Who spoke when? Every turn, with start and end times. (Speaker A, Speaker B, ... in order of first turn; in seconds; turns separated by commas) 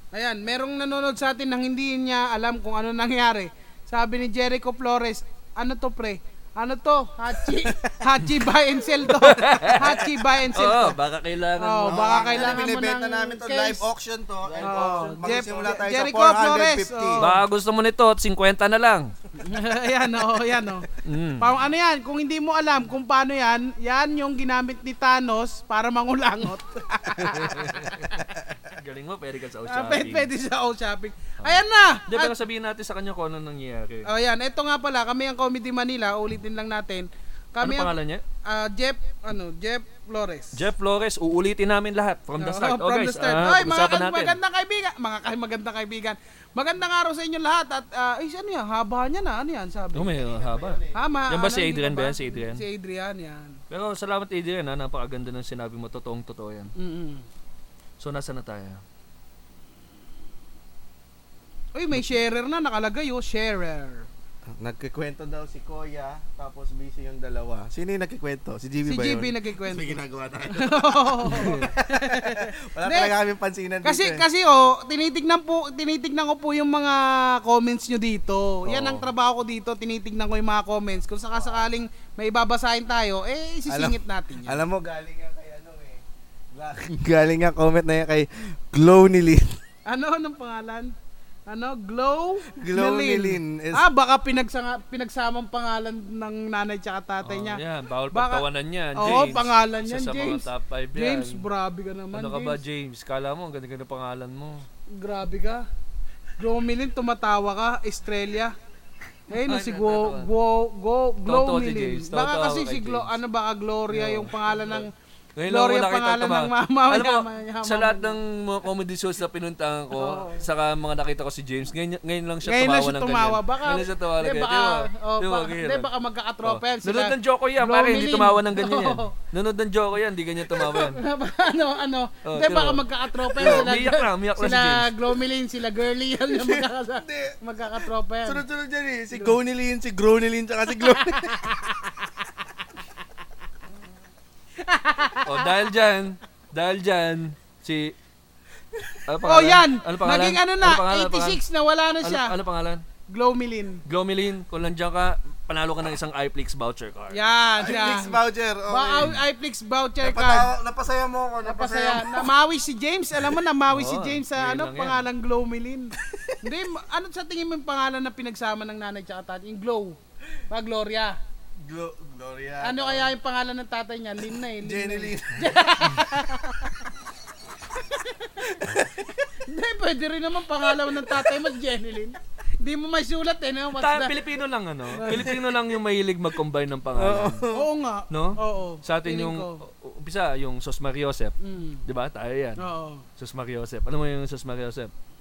Speaker A: 0.1-10.9, Speaker B: 9.1-12.6, Speaker A: 11.6-13.9, Speaker C: 11.9-17.2, Speaker B: 14.5-15.7, Speaker A: 14.6-17.4, Speaker B: 17.2-19.1, Speaker A: 19.4-20.9, Speaker B: 21.1-21.5, Speaker A: 21.4-28.2, Speaker B: 27.2-28.1, Speaker B: 28.7-30.3, Speaker A: 29.7-32.3, Speaker B: 31.4-34.1, Speaker A: 34.1-37.9, Speaker B: 37.6-38.2, Speaker A: 38.5-40.7, Speaker B: 40.5-44.4, Speaker A: 42.4-50.1, Speaker B: 49.9-52.6, Speaker C: 50.0-51.3, Speaker A: 51.0-53.6, Speaker B: 53.7-56.7, Speaker A: 56.8-57.2, Speaker B: 58.0-58.8, Speaker A: 61.7-64.1, Speaker C: 64.6-74.2, Speaker A: 68.8-70.0, Speaker A: 70.5-73.1, Speaker A: 73.8-84.6, Speaker C: 81.3-81.7, Speaker C: 83.7-86.0, Speaker C: 86.5-89.6, Speaker A: 89.9-90.9, Speaker A: 91.5-97.6, Speaker C: 92.5-93.8, Speaker B: 97.2-101.5, Speaker A: 98.1-98.4, Speaker A: 99.0-102.6, Speaker B: 102.1-104.7, Speaker A: 104.9-105.6, Speaker A: 106.4-108.5, Speaker A: 109.3-114.9, Speaker B: 109.3-110.3, Speaker B: 111.3-113.1, Speaker B: 113.9-114.9, Speaker B: 115.4-125.9, Speaker A: 115.5-118.2, Speaker A: 120.0-120.4, Speaker A: 122.5-129.1, Speaker B: 126.4-131.0, Speaker A: 130.6-138.4, Speaker B: 132.3-132.8, Speaker C: 133.4-133.7, Speaker B: 133.4-134.9, Speaker C: 136.3-141.9, Speaker A: 140.8-141.8, Speaker A: 144.6-145.5, Speaker B: 145.2-147.9, Speaker B: 149.1-151.4, Speaker A: 149.2-152.3, Speaker B: 152.0-152.8, Speaker A: 153.1-153.8, Speaker B: 153.9-157.2, Speaker A: 157.1-158.2, Speaker C: 157.6-159.1, Speaker A: 158.7-160.5, Speaker C: 160.0-162.3, Speaker A: 161.4-170.0, Speaker B: 163.7-165.0, Speaker C: 166.1-166.4, Speaker A: 170.5-171.2, Speaker C: 171.6-173.1, Speaker A: 172.6-176.8, Speaker C: 174.5-175.7, Speaker A: 177.8-184.1, Speaker B: 183.8-187.4, Speaker A: 185.0-185.3, Speaker C: 185.0-185.4, Speaker C: 186.9-187.7, Speaker A: 187.5-189.6, Speaker B: 188.1-191.3, Speaker A: 191.4-191.8, Speaker B: 191.9-192.6, Speaker A: 192.6-193.1, Speaker B: 193.2-194.9